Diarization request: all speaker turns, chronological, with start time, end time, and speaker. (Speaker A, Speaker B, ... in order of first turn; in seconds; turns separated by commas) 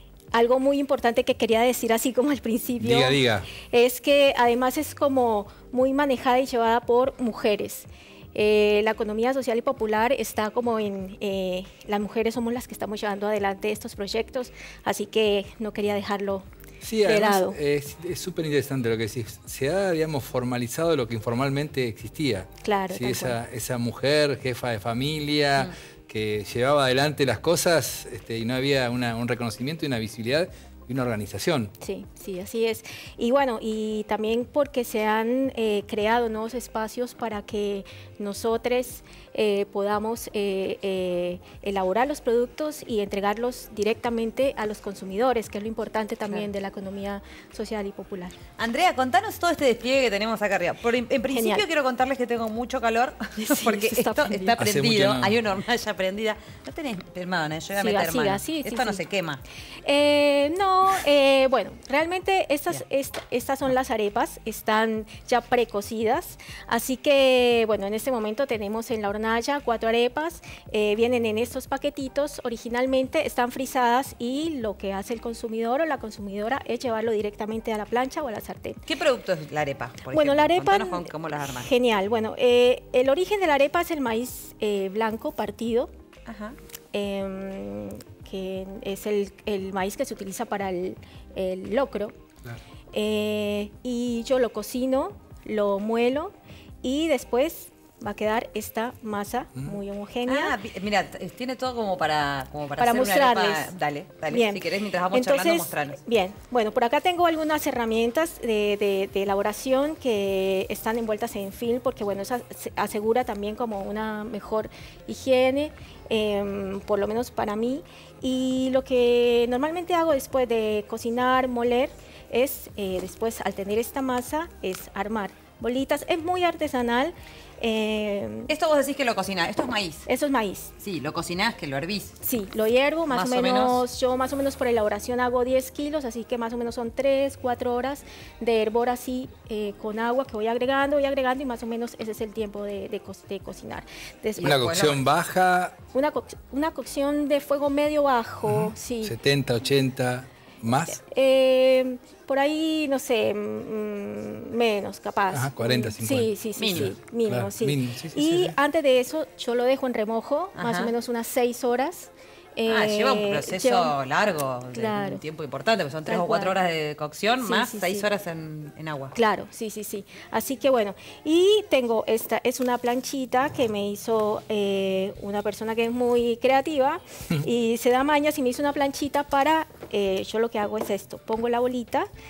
Speaker A: 0.3-16.4, Speaker B: 2.8-3.5, Speaker B: 16.8-31.7, Speaker A: 17.0-17.6, Speaker A: 22.6-23.4, Speaker A: 31.8-48.4, Speaker C: 48.6-59.4, Speaker A: 51.3-51.6, Speaker A: 53.4-54.6, Speaker B: 54.6-55.3, Speaker A: 57.8-59.0, Speaker A: 59.8-78.8, Speaker C: 78.8-81.7, Speaker A: 80.1-85.9, Speaker C: 86.3-86.6, Speaker A: 86.9-92.1, Speaker A: 92.9-100.6, Speaker C: 100.2-106.0, Speaker A: 102.8-103.7, Speaker A: 104.3-128.5, Speaker C: 128.5-130.1, Speaker A: 130.1-130.7, Speaker C: 130.8-132.1, Speaker A: 132.2-144.7, Speaker C: 133.1-133.8, Speaker C: 144.4-145.0, Speaker B: 144.4-145.8, Speaker A: 145.9-149.1, Speaker B: 148.4-151.0, Speaker A: 150.9-163.9, Speaker B: 155.3-158.5, Speaker C: 156.6-156.9, Speaker C: 160.6-160.9, Speaker C: 162.7-169.2, Speaker A: 164.7-165.2, Speaker A: 166.1-166.5, Speaker A: 167.4-168.1, Speaker A: 169.1-182.1